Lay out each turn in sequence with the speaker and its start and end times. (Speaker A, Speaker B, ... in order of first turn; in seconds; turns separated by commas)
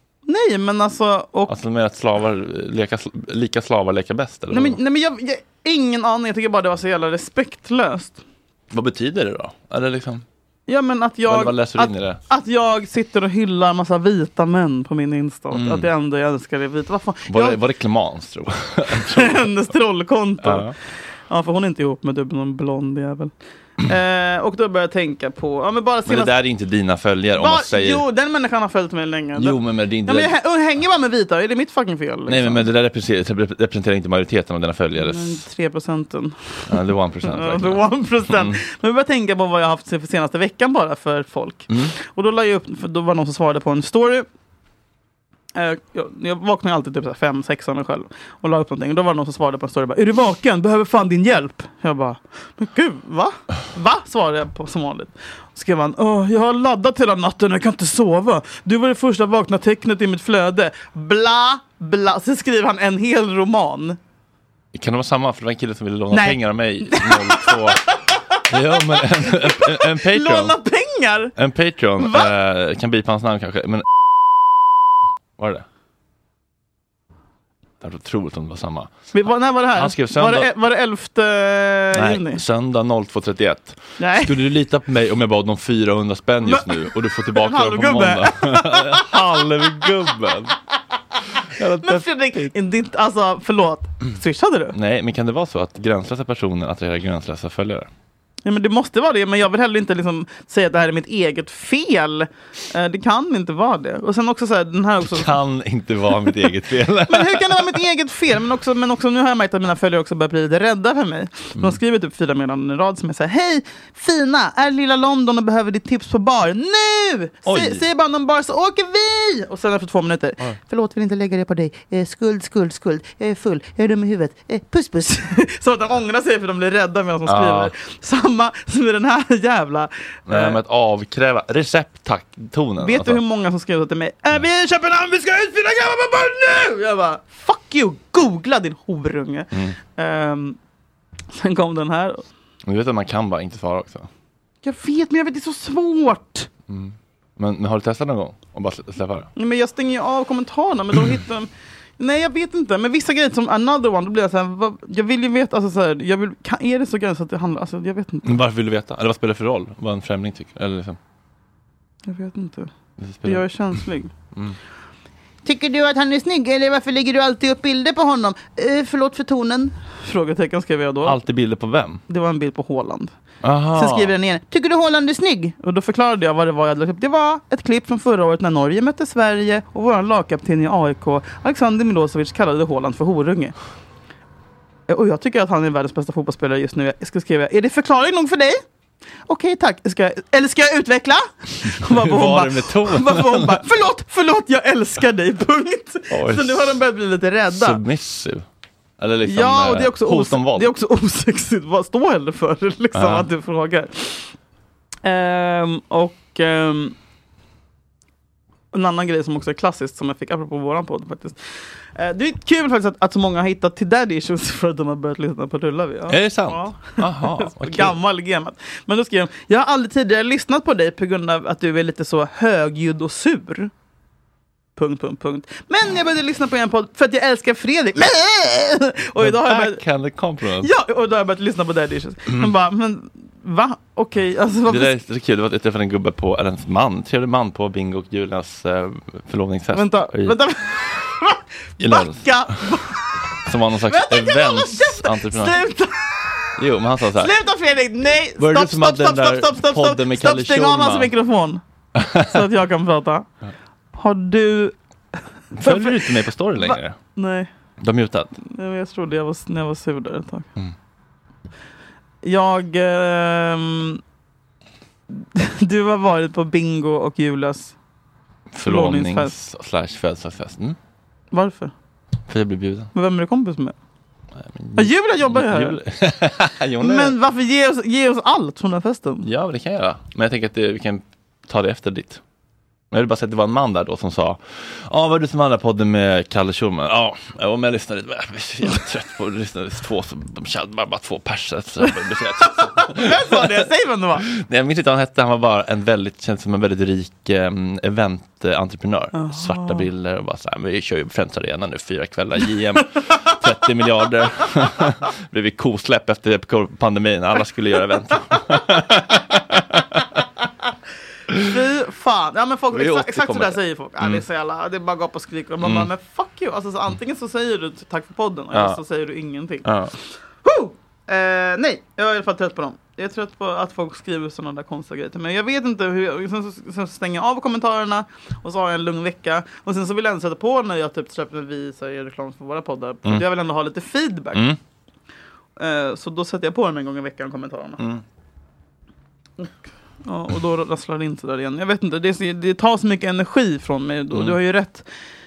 Speaker A: 0.3-1.5, Speaker B: 1.5-4.8, Speaker A: 4.5-8.2, Speaker B: 8.7-10.2, Speaker A: 10.7-17.6, Speaker B: 11.3-12.2, Speaker B: 15.5-15.9, Speaker B: 17.3-19.5, Speaker A: 19.0-20.7, Speaker B: 20.4-20.7, Speaker A: 21.3-26.3, Speaker B: 26.1-28.0, Speaker A: 27.4-32.7, Speaker B: 29.4-30.3, Speaker B: 32.3-35.5, Speaker A: 35.0-44.3, Speaker B: 36.7-38.6, Speaker B: 41.7-41.9, Speaker A: 45.5-64.0, Speaker B: 64.7-67.8, Speaker A: 66.1-71.3, Speaker B: 68.5-70.6, Speaker B: 71.4-73.8, Speaker A: 72.0-72.3, Speaker B: 75.4-75.7, Speaker B: 77.8-78.9, Speaker A: 79.1-82.4, Speaker B: 79.7-80.5, Speaker B: 82.0-90.5, Speaker A: 84.0-84.3, Speaker A: 86.5-86.8, Speaker A: 87.3-89.5, Speaker B: 91.6-92.5, Speaker A: 91.8-94.8, Speaker B: 94.7-97.9, Speaker A: 98.5-105.3, Speaker B: 105.0-107.8, Speaker A: 107.1-130.6, Speaker B: 117.5-117.8, Speaker B: 127.3-127.7, Speaker B: 130.3-133.2, Speaker A: 132.8-140.6, Speaker B: 139.5-139.8, Speaker A: 141.3-142.2, Speaker B: 142.7-144.1, Speaker A: 144.6-146.5, Speaker B: 146.7-149.3, Speaker A: 149.4-158.4, Speaker B: 158.3-161.0, Speaker A: 162.1-162.7, Speaker B: 163.0-163.5, Speaker A: 163.2-164.1, Speaker A: 165.4-171.2, Speaker B: 171.1-172.0, Speaker A: 172.1-173.1, Speaker B: 173.4-174.1, Speaker A: 173.7-183.5, Speaker A: 184.9-188.6, Speaker A: 189.3-197.8, Speaker B: 191.8-193.6, Speaker B: 196.1-196.8, Speaker B: 197.5-198.4, Speaker B: 199.0-200.7, Speaker A: 199.2-204.3, Speaker B: 202.9-203.3, Speaker A: 205.0-207.0, Speaker A: 208.7-211.4, Speaker A: 211.9-223.7, Speaker B: 216.1-218.0, Speaker A: 224.8-229.8, Speaker B: 229.2-230.7, Speaker A: 230.6-234.9, Speaker B: 234.7-240.4, Speaker A: 239.7-243.1, Speaker B: 241.8-242.5, Speaker B: 243.5-245.6, Speaker A: 243.9-246.5, Speaker B: 246.6-247.3, Speaker A: 247.2-251.6, Speaker B: 248.4-251.1, Speaker B: 252.0-252.3, Speaker A: 252.2-253.3, Speaker A: 253.9-254.7, Speaker A: 255.5-256.1, Speaker B: 255.6-257.0, Speaker A: 256.6-257.5, Speaker B: 257.8-258.4, Speaker A: 258.5-260.5, Speaker A: 262.2-264.0, Speaker A: 265.2-267.8, Speaker B: 268.5-270.8, Speaker A: 268.7-269.3, Speaker A: 271.3-271.7, Speaker B: 272.3-272.9, Speaker A: 272.9-273.8, Speaker B: 274.4-277.2, Speaker A: 274.8-275.8, Speaker A: 276.8-279.3, Speaker B: 279.2-282.2, Speaker B: 282.9-293.4, Speaker A: 292.5-294.3, Speaker B: 294.3-310.0, Speaker A: 299.1-299.9, Speaker A: 311.4-319.7, Speaker B: 312.7-314.2, Speaker B: 315.6-315.9, Speaker B: 318.5-318.8, Speaker B: 319.6-319.9, Speaker A: 320.4-334.5, Speaker A: 335.6-337.8, Speaker A: 339.4-344.9